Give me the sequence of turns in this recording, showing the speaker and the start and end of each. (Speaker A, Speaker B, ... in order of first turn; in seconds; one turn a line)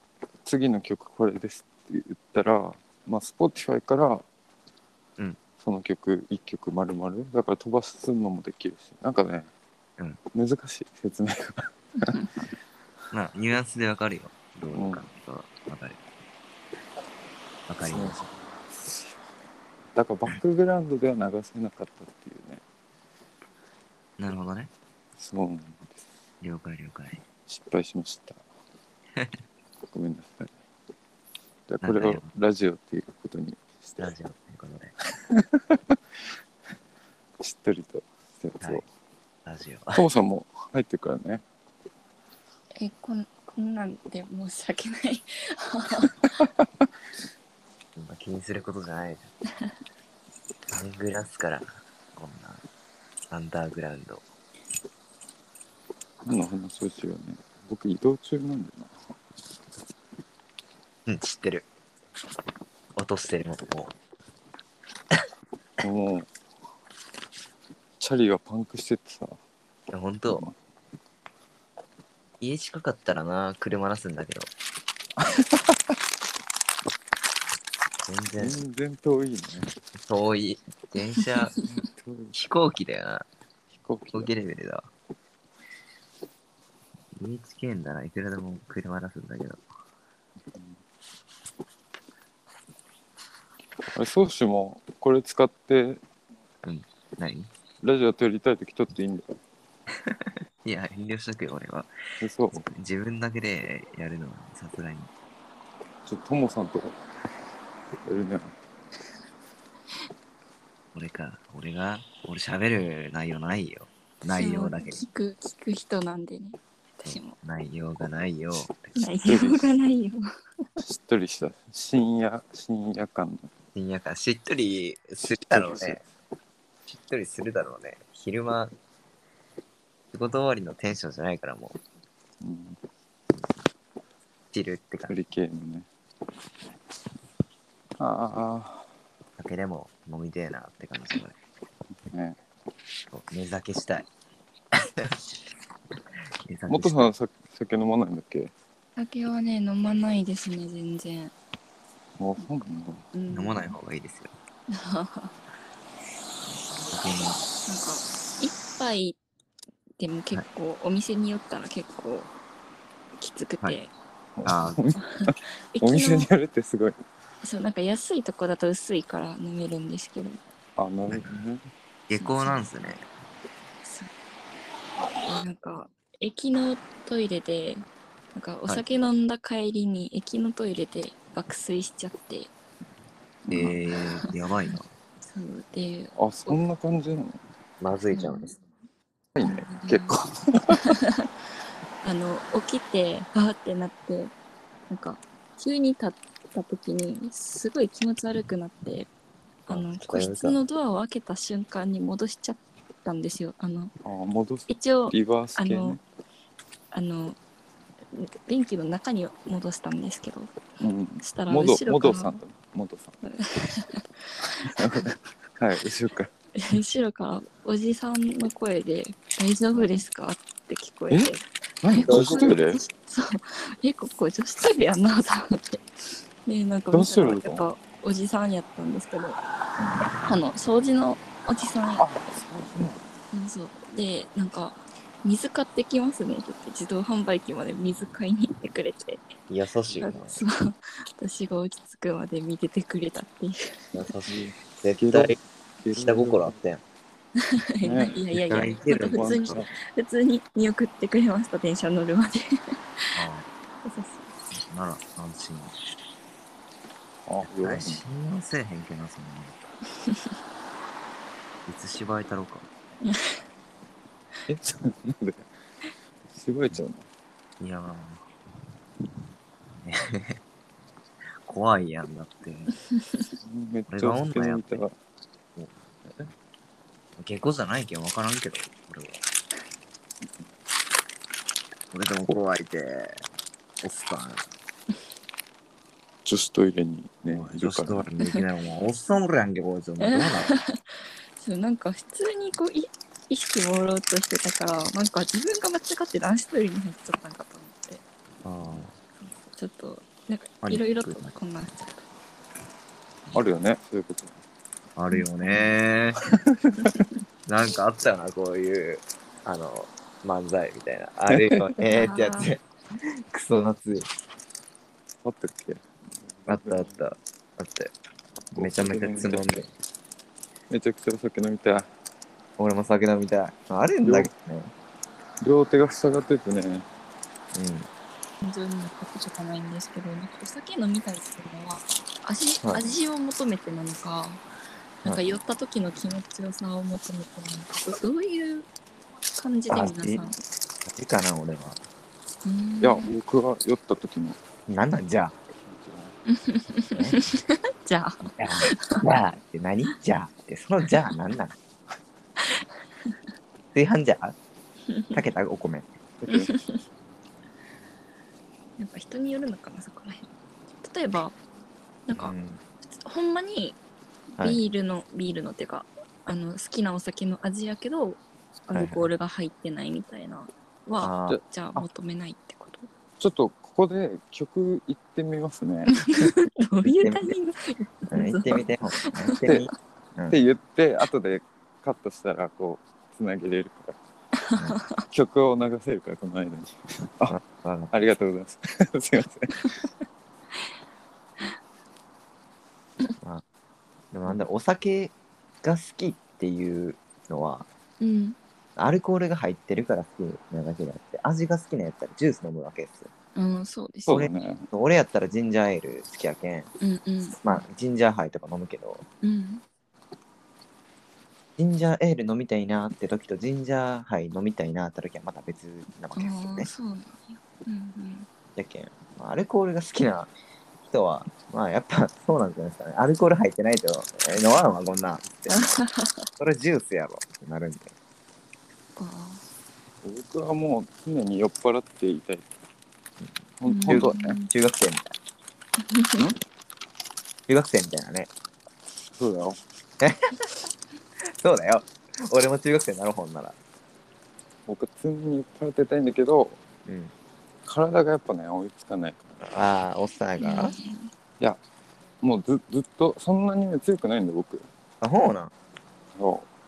Speaker A: 0.5-4.2
Speaker A: 5.6-9.5
Speaker A: 10.3-12.1
Speaker B: 12.0-12.3
Speaker C: 13.1-16.0
Speaker A: 14.7-15.1
Speaker C: 17.7-18.2
Speaker A: 17.8-19.2
Speaker A: 20.0-22.6
Speaker C: 24.2-24.7
Speaker A: 25.2-26.0
Speaker C: 26.4-27.2
Speaker A: 27.5-28.4
Speaker A: 29.9-30.5
Speaker A: 31.7-34.1
Speaker C: 31.8-32.3
Speaker C: 34.0-34.9
Speaker A: 35.3-36.0
Speaker A: 37.4-38.9
Speaker C: 39.5-40.0
Speaker A: 40.0-41.4
Speaker B: 42.8-46.2
Speaker C: 48.0-49.3
Speaker C: 50.7-52.6
Speaker C: 53.3-54.2
Speaker A: 56.3-59.0
Speaker C: 61.1-61.7
Speaker C: 63.0-63.9
Speaker A: 65.8-66.3
Speaker A: 68.0-69.4
Speaker C: 69.9-70.5
Speaker A: 70.3-70.5
Speaker C: 72.4-74.5
Speaker A: 75.2-75.8
Speaker C: 78.0-78.6
Speaker A: 78.4-79.7
Speaker C: 80.0-81.5
Speaker A: 81.7-82.3
Speaker C: 82.3-83.3
Speaker A: 83.7-84.3
Speaker C: 84.1-84.9
Speaker C: 87.2-89.6
Speaker A: 93.9-96.0
Speaker C: 96.6-97.5
Speaker A: 97.8-99.3
Speaker C: 100.1-101.9
Speaker A: 102.2-102.6
Speaker C: 102.5-105.1
Speaker A: 106.0-107.0
Speaker A: 108.1-108.5
Speaker C: 111.0-115.0
Speaker B: 114.3-117.4
Speaker C: 117.0-119.0
Speaker B: 119.0-120.3
Speaker A: 119.2-119.7
Speaker A: 120.8-123.5
Speaker C: 123.8-126.0
Speaker A: 125.5-126.0
Speaker C: 126.9-128.7
Speaker C: 130.1-131.8
Speaker A: 132.4-132.8
Speaker C: 134.5-135.1
Speaker A: 135.1-135.9
Speaker A: 138.0-138.8
Speaker C: 139.4-141.4
Speaker A: 142.1-142.4
Speaker C: 143.1-144.1
Speaker C: 144.8-145.2
Speaker C: 146.4-147.1
Speaker A: 146.7-148.5
Speaker B: 149.0-151.3
Speaker A: 152.2-153.0
Speaker B: 153.1-153.7
Speaker C: 153.3-154.3
Speaker B: 154.7-155.3
Speaker C: 156.9-157.4
Speaker B: 157.7-159.2
Speaker B: 160.0-162.3
Speaker B: 163.2-163.9
Speaker A: 164.4-167.0
Speaker C: 164.4-164.8
Speaker B: 165.1-166.3
Speaker B: 167.4-170.4
Speaker A: 170.8-171.7
Speaker C: 171.1-171.4
Speaker C: 172.1-173.0
Speaker B: 172.2-172.7
Speaker B: 173.8-174.1
Speaker B: 175.2-182.5
Speaker C: 183.5-184.9
Speaker B: 183.5-186.6
Speaker A: 186.2-187.4
Speaker C: 187.8-188.6
Speaker B: 188.1-188.5
Speaker A: 189.3-190.8
Speaker B: 189.4-190.2
Speaker B: 190.7-191.3
Speaker B: 192.0-194.3
Speaker B: 194.9-199.1
Speaker B: 199.7-203.9
Speaker C: 199.7-200.6
Speaker A: 204.1-206.0
Speaker B: 204.7-206.0
Speaker B: 206.9-207.4
Speaker B: 208.1-210.5
Speaker A: 210.8-213.1
Speaker B: 211.2-212.4
Speaker B: 213.2-215.1
Speaker A: 214.6-216.3
Speaker B: 216.6-225.8
Speaker A: 221.1-222.8
Speaker C: 222.0-222.5
Speaker B: 226.4-229.4
Speaker A: 226.9-227.7
Speaker B: 230.2-232.1
Speaker A: 232.0-233.0
Speaker B: 233.3-239.3
Speaker C: 239.5-240.4
Speaker B: 240.0-243.8
Speaker C: 243.9-245.4
Speaker A: 244.3-246.6
Speaker C: 245.9-246.8
Speaker B: 247.4-253.2
Speaker A: 247.8-248.2
Speaker C: 248.3-249.6
Speaker A: 248.9-249.7
Speaker C: 253.2-253.4
Speaker B: 253.8-254.3
Speaker C: 254.6-255.8
Speaker A: 257.3-258.0
Speaker C: 257.5-259.7
Speaker C: 261.7-262.7
Speaker B: 263.1-263.4
Speaker A: 264.5-265.4
Speaker A: 266.3-267.1
Speaker C: 267.6-268.2
Speaker C: 269.8-270.4
Speaker C: 271.5-272.7
Speaker A: 273.4-274.9
Speaker C: 273.9-274.9
Speaker C: 277.2-279.2
Speaker C: 281.9-283.2
Speaker C: 283.8-284.5
Speaker A: 286.2-288.1
Speaker C: 287.3-290.5
Speaker B: 290.0-298.0
Speaker C: 298.4-298.9
Speaker B: 299.2-302.1
Speaker C: 300.6-301.3
Speaker A: 303.3-304.4
Speaker C: 305.0-306.2
Speaker A: 306.3-306.9
Speaker C: 307.5-312.6
Speaker A: 311.3-311.8
Speaker B: 311.9-312.5
Speaker C: 313.3-314.1
Speaker A: 315.2-316.9
Speaker C: 316.5-317.9
Speaker C: 318.5-319.7
Speaker A: 318.5-319.6
Speaker A: 320.7-321.9
Speaker C: 322.6-324.7
Speaker A: 324.0-324.3
Speaker A: 325.4-326.9
Speaker C: 327.5-327.9
Speaker B: 328.4-334.4
Speaker C: 332.6-332.9
Speaker B: 335.0-338.7
Speaker B: 339.3-340.4
Speaker C: 339.7-340.3
Speaker C: 340.9-341.8
Speaker B: 342.4-343.1
Speaker A: 342.8-344.4
Speaker C: 344.7-345.4
Speaker A: 345.7-346.1
Speaker B: 346.3-349.1
Speaker C: 347.0-347.3
Speaker C: 348.3-351.6
Speaker B: 352.4-353.1
Speaker C: 353.7-354.4
Speaker B: 354.9-355.2
Speaker C: 355.1-356.5
Speaker B: 356.3-356.8
Speaker B: 358.8-360.3
Speaker B: 360.8-361.4
Speaker B: 362.1-363.8
Speaker C: 362.2-362.6
Speaker B: 364.4-372.9
Speaker C: 368.7-369.1
Speaker C: 371.0-371.4
Speaker A: 371.3-371.9
Speaker A: 373.2-375.9
Speaker B: 375.9-379.7
Speaker C: 376.8-377.4
Speaker C: 378.1-380.4
Speaker A: 380.3-384.0
Speaker B: 384.4-385.1
Speaker A: 385.1-387.4
Speaker C: 387.3-387.9
Speaker A: 387.9-389.8
Speaker C: 394.1-397.7
Speaker B: 398.0-398.4
Speaker C: 398.8-403.1
Speaker B: 403.4-404.2
Speaker A: 404.1-404.7
Speaker C: 404.1-406.7
Speaker B: 406.8-407.4
Speaker C: 407.4-409.0
Speaker B: 409.2-409.6
Speaker C: 411.6-416.7
Speaker B: 416.1-418.3
Speaker C: 418.6-420.3
Speaker C: 420.9-425.8
Speaker B: 425.5-426.3
Speaker C: 426.4-427.9
Speaker B: 429.0-429.4
Speaker A: 430.0-432.5
Speaker A: 433.6-434.4
Speaker B: 433.7-434.5
Speaker C: 433.9-435.1
Speaker B: 435.8-436.3
Speaker C: 437.5-438.3
Speaker A: 439.1-439.6
Speaker C: 440.0-440.4
Speaker C: 441.3-443.6
Speaker A: 444.7-446.6
Speaker C: 446.9-447.1
Speaker A: 447.7-449.4
Speaker C: 449.4-450.8
Speaker B: 450.4-451.1
Speaker A: 452.2-454.7
Speaker C: 455.0-455.5
Speaker A: 456.2-456.5